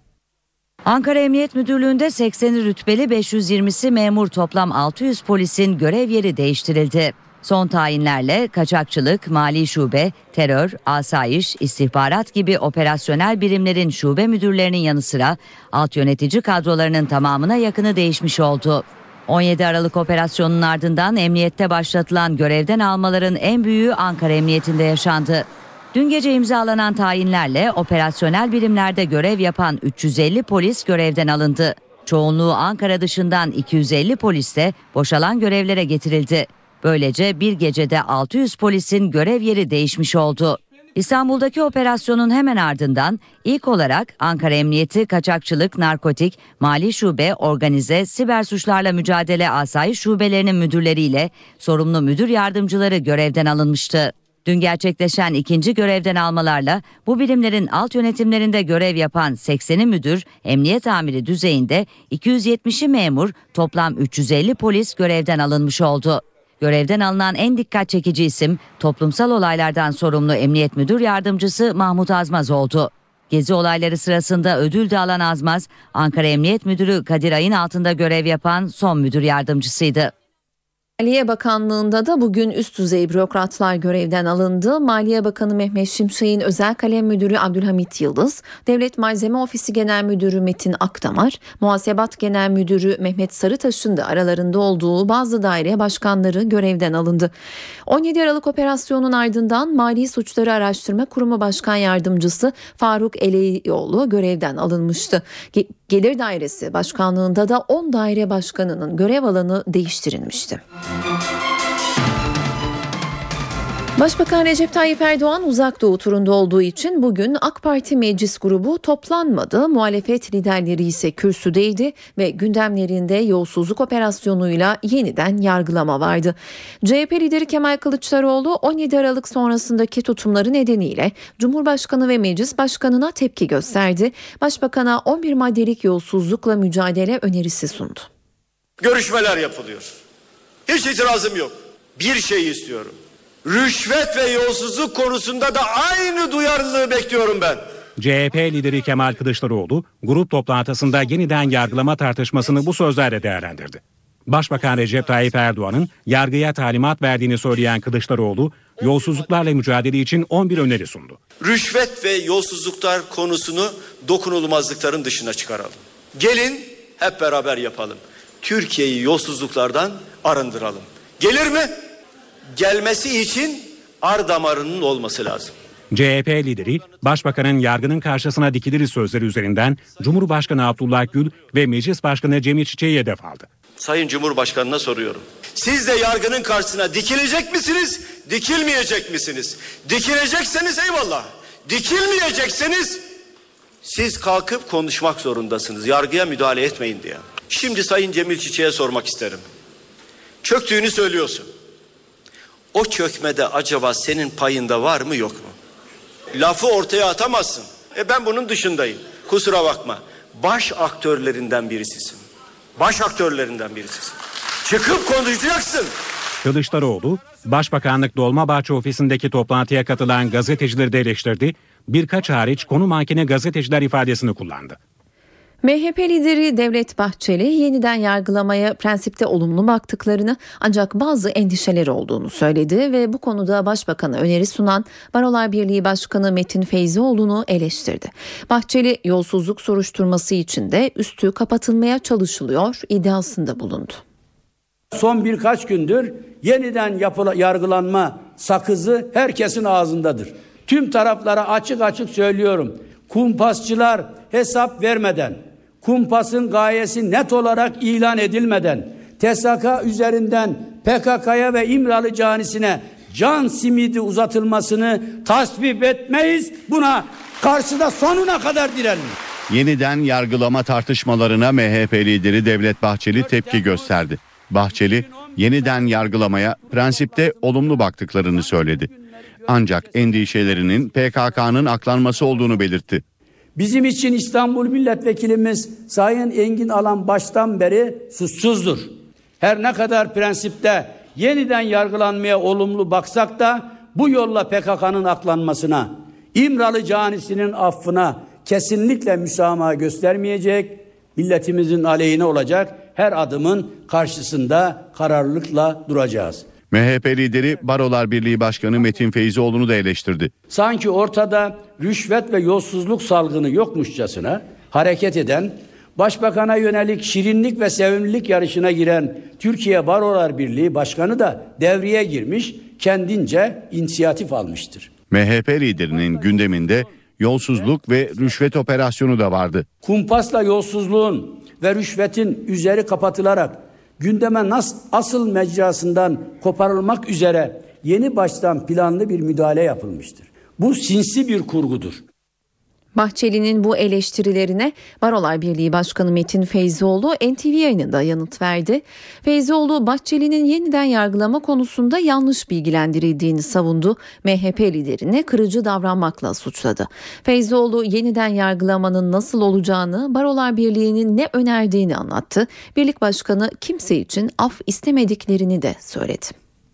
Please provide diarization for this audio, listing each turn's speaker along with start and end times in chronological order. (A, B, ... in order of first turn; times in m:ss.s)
0:00.8-1:20.1 A
1:21.0-1:37.3 B
1:37.8-1:50.6 B
1:54.0-2:18.1 B
2:18.8-2:19.9 C
2:20.7-2:27.6 C
2:28.0-2:41.2 D
2:41.4-2:51.7 C
2:52.6-2:55.5 C
2:55.9-3:03.5 D
3:03.8-3:13.0 C
3:13.8-3:19.4 C
3:20.4-3:21.5 C
3:22.7-3:25.5 C
3:26.3-3:32.2 C
3:32.8-3:35.9 C
3:36.4-3:44.8 D
3:45.6-4:04.0 B
4:04.9-4:29.2 E
4:29.5-4:38.9 F
4:39.4-4:43.0 F
4:43.6-5:06.4 E
5:06.7-5:10.3 F
5:10.5-5:24.9 E
5:25.1-5:29.7 F
5:29.8-5:42.0 E
5:43.0-6:06.3 B